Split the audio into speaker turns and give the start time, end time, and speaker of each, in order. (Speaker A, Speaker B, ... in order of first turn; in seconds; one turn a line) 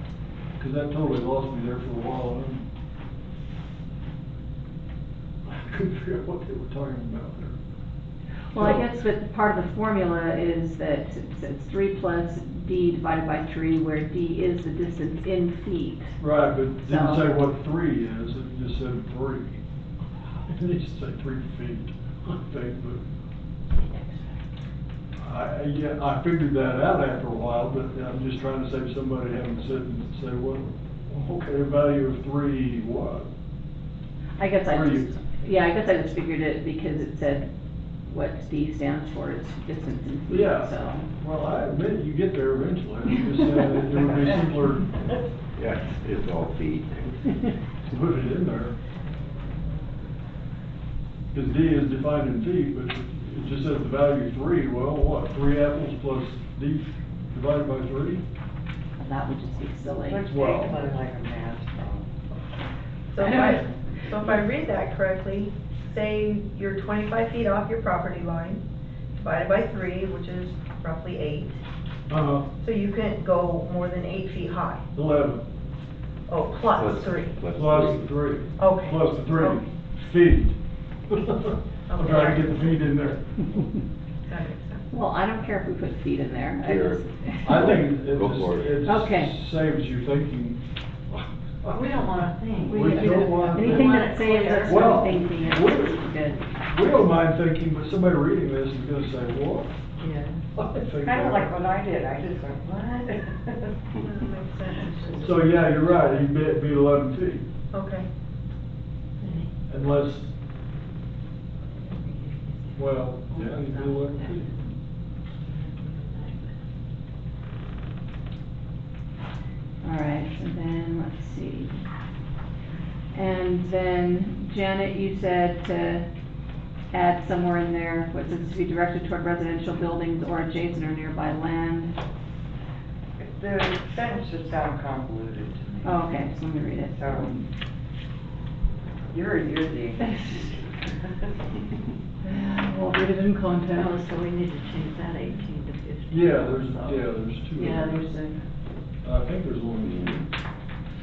Speaker A: 0.6-2.7
Speaker A: 5.5-7.6
Speaker B: 8.5-16.2
Speaker A: 8.6-8.9
Speaker A: 16.2-19.6
Speaker B: 16.8-17.3
Speaker A: 20.5-23.0
Speaker B: 23.8-24.0
Speaker A: 25.2-33.3
Speaker B: 34.4-37.5
Speaker A: 34.7-35.1
Speaker B: 38.1-41.1
Speaker A: 40.3-44.9
Speaker C: 45.5-47.2
Speaker A: 47.9-48.8
Speaker A: 51.3-58.2
Speaker B: 59.0-60.3
Speaker D: 60.0-62.1
Speaker A: 60.3-60.8
Speaker E: 63.1-68.6
Speaker B: 63.2-64.4
Speaker E: 69.2-71.6
Speaker A: 72.1-72.5
Speaker E: 72.6-74.8
Speaker A: 74.9-75.5
Speaker E: 76.3-77.3
Speaker C: 76.7-78.1
Speaker A: 77.5-80.6
Speaker E: 78.6-79.6
Speaker A: 81.1-83.2
Speaker E: 81.9-82.8
Speaker E: 84.3-84.9
Speaker B: 84.9-87.6
Speaker C: 86.6-88.8
Speaker A: 87.4-96.0
Speaker B: 88.8-89.4
Speaker F: 91.7-95.1
Speaker B: 92.7-96.5
Speaker A: 96.6-99.7
Speaker F: 100.0-100.4
Speaker A: 100.5-101.5
Speaker D: 101.0-103.7
Speaker E: 103.9-105.6
Speaker A: 105.2-107.5
Speaker E: 107.7-108.1
Speaker F: 109.2-109.5
Speaker A: 109.7-110.3
Speaker F: 111.7-114.6
Speaker A: 112.8-114.7
Speaker F: 115.4-116.5
Speaker B: 119.8-121.8
Speaker B: 123.1-126.1
Speaker B: 126.9-132.0
Speaker D: 133.2-135.9
Speaker B: 135.8-137.5
Speaker D: 136.9-137.3
Speaker D: 139.1-141.4
Speaker B: 142.2-144.0
Speaker F: 143.7-147.1
Speaker A: 146.1-148.0
Speaker B: 147.5-148.4
Speaker A: 149.0-150.3